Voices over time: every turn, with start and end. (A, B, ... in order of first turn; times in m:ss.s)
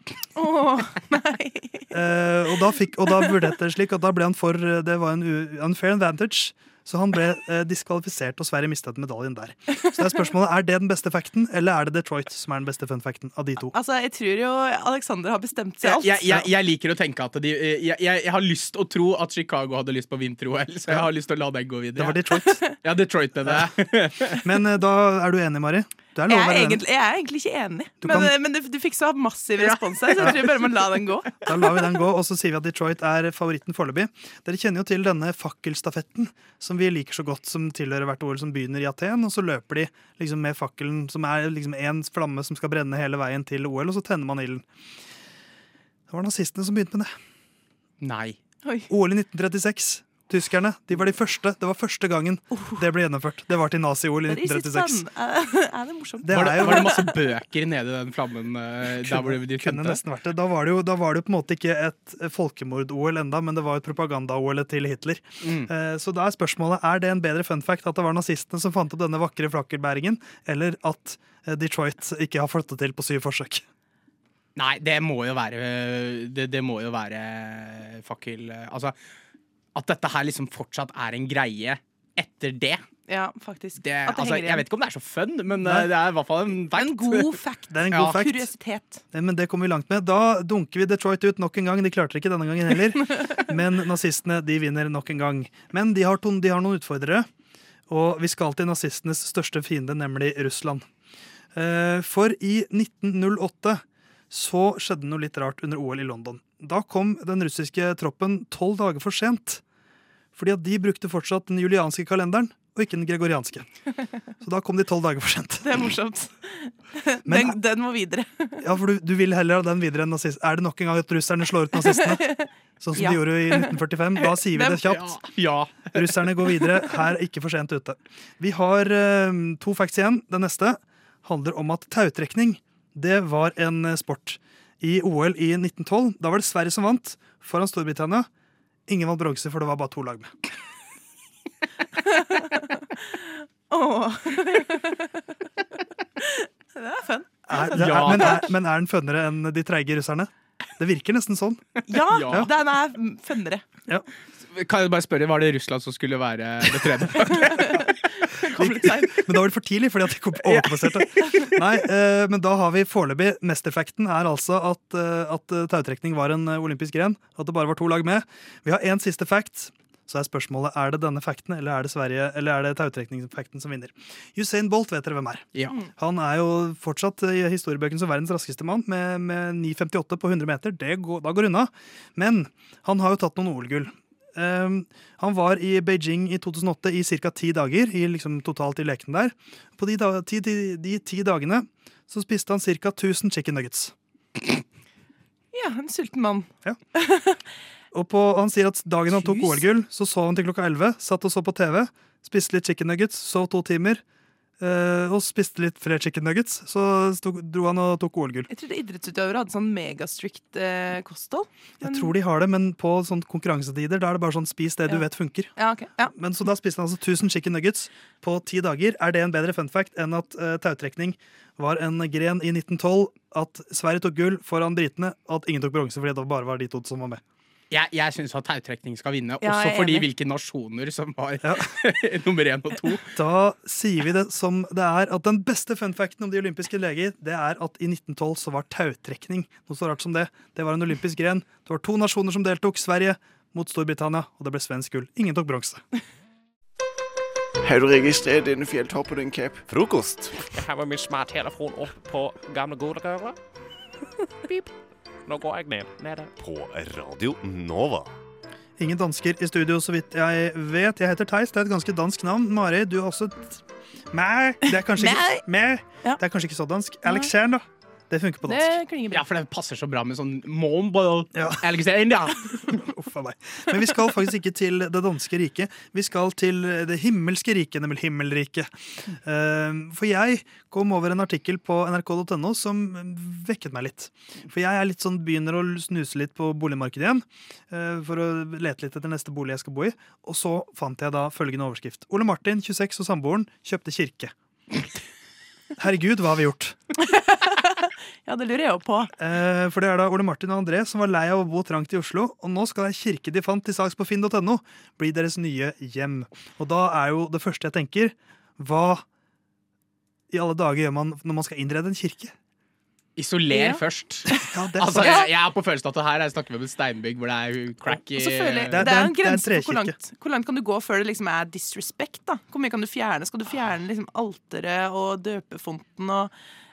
0:00.4-0:01.9 A
0:01.9-0:13.7 B
0:13.6-0:16.4 A
0:15.8-0:24.4 C
0:22.0-0:22.6 B
0:24.4-0:26.8 B
0:26.3-0:31.5 A
0:28.0-0:28.3 B
0:30.1-0:30.5 B
0:31.4-0:44.6 B
0:46.1-0:47.1 B
0:48.0-0:48.4 C
0:48.6-0:48.9 A
0:48.9-0:55.0 B
0:52.5-0:52.9 A
0:54.3-0:57.0 A
0:56.2-0:57.0 B
0:56.3-1:00.0 C
0:59.0-1:13.6 B
1:05.4-1:05.7 C
1:14.6-1:18.9 C
1:19.7-1:22.8 C
1:23.1-1:24.6 A
1:23.8-1:28.2 C
1:25.6-1:25.9 B
1:26.7-1:29.0 A
1:27.7-1:28.5 B
1:29.1-1:37.3 B
1:37.9-1:40.8 B
1:41.5-1:49.6 B
1:50.4-1:53.7 B
1:54.4-1:55.7 B
1:55.6-1:58.6 A
1:57.2-1:57.6 B
1:58.6-2:02.3 B
2:01.9-2:03.8 A
2:02.8-2:05.1 B
2:04.5-2:04.8 A
2:04.8-2:06.0 C
2:05.9-2:18.3 B
2:18.9-2:20.3 B
2:22.1-2:22.6 A
2:23.7-2:25.2 A
2:26.2-2:28.4 A
2:27.5-2:31.6 B
2:27.7-2:28.5 C
2:31.9-2:33.6 A
2:32.1-2:32.5 C
2:34.5-2:37.8 C
2:37.4-2:39.3 A
2:38.6-2:55.4 B
2:40.5-2:40.9 C
2:56.0-3:13.9 B
3:15.5-3:17.4 A
3:17.9-3:24.0 B
3:19.1-3:19.6 A
3:24.6-3:28.5 B
3:28.5-3:32.1 A
3:31.8-3:35.5 B
3:35.6-3:36.1 A
3:36.1-3:47.2 B
3:47.7-3:53.0 C
3:49.4-3:50.1 A
3:51.4-3:51.7 B
3:53.2-4:05.8 B
4:07.6-4:09.6 D
4:09.7-4:10.4 E
4:10.4-4:13.4 F
4:14.4-4:14.7 F
4:15.2-4:16.3 F
4:16.4-4:18.1 E
4:18.8-4:28.8 B
4:24.7-4:25.4 A
4:28.5-4:29.2 A
4:29.1-4:32.8 C
4:31.3-4:31.6 B
4:32.9-4:54.3 B
4:55.8-4:56.8 B
4:57.0-4:59.1 A
4:59.2-5:09.0 B
5:10.3-5:12.3 B
5:13.2-5:18.9 C
5:13.5-5:13.8 A
5:14.5-5:15.3 B
5:18.2-5:26.3 A
5:18.7-5:20.0 B